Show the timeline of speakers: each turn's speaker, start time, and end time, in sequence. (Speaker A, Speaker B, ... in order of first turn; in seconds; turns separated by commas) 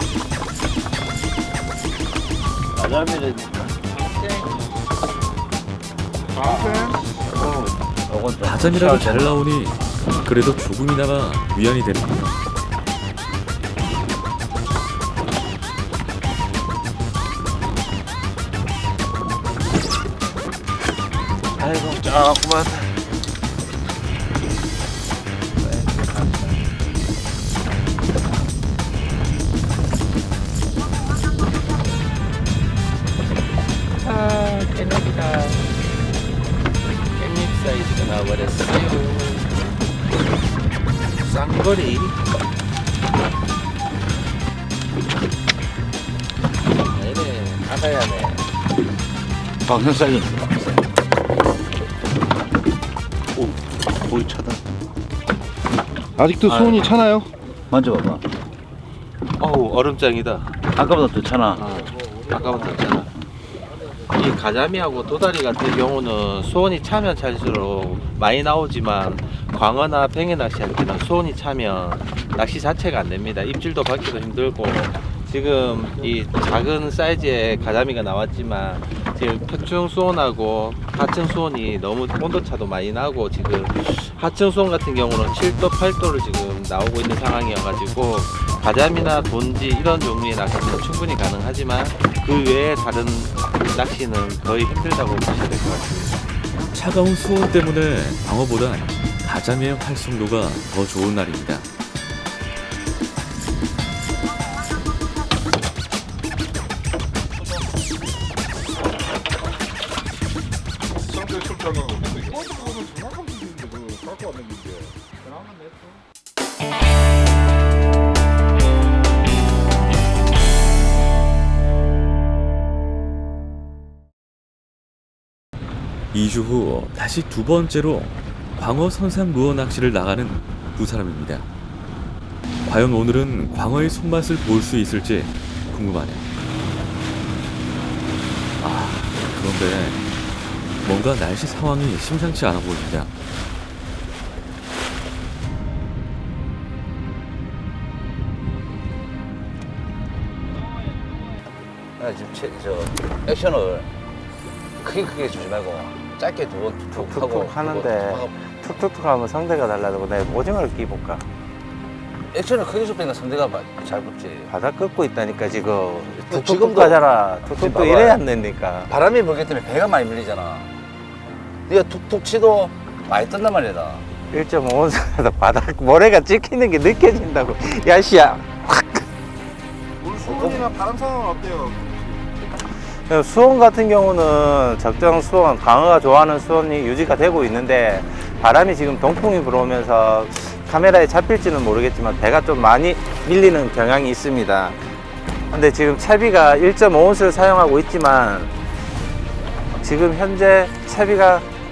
Speaker A: 2.8-3.4, Speaker B: 2.9-4.6, Speaker C: 6.3-7.0, Speaker B: 6.5-6.8, Speaker B: 7.3-7.7, Speaker A: 8.1-9.4, Speaker D: 8.4-12.4, Speaker B: 21.6-22.9, Speaker B: 25.6-26.6, Speaker B: 34.0-35.7, Speaker B: 37.2-39.5, Speaker B: 41.2-42.1, Speaker B: 46.9-48.4, Speaker A: 49.6-50.5, Speaker A: 53.3-54.6, Speaker C: 56.2-57.3, Speaker A: 56.5-56.8, Speaker A: 57.7-58.3, Speaker B: 59.4-60.6, Speaker A: 60.7-61.6, Speaker B: 61.6-63.1, Speaker B: 64.1-96.2, Speaker D: 96.7-101.7, Speaker C: 110.9-115.1, Speaker D: 126.1-131.5, Speaker D: 132.6-136.2, Speaker D: 138.6-140.0, Speaker D: 140.8-143.1, Speaker A: 152.0-153.9, Speaker A: 154.8-158.4, Speaker B: 156.9-161.2, Speaker A: 162.3-164.5, Speaker B: 164.5-168.9, Speaker A: 166.3-168.2, Speaker A: 168.9-170.7, Speaker A: 171.7-174.1, Speaker B: 174.3-179.0, Speaker C: 180.0-182.3, Speaker A: 180.2-180.7, Speaker B: 183.1-194.8, Speaker B: 195.5-198.5, Speaker B: 199.8-201.4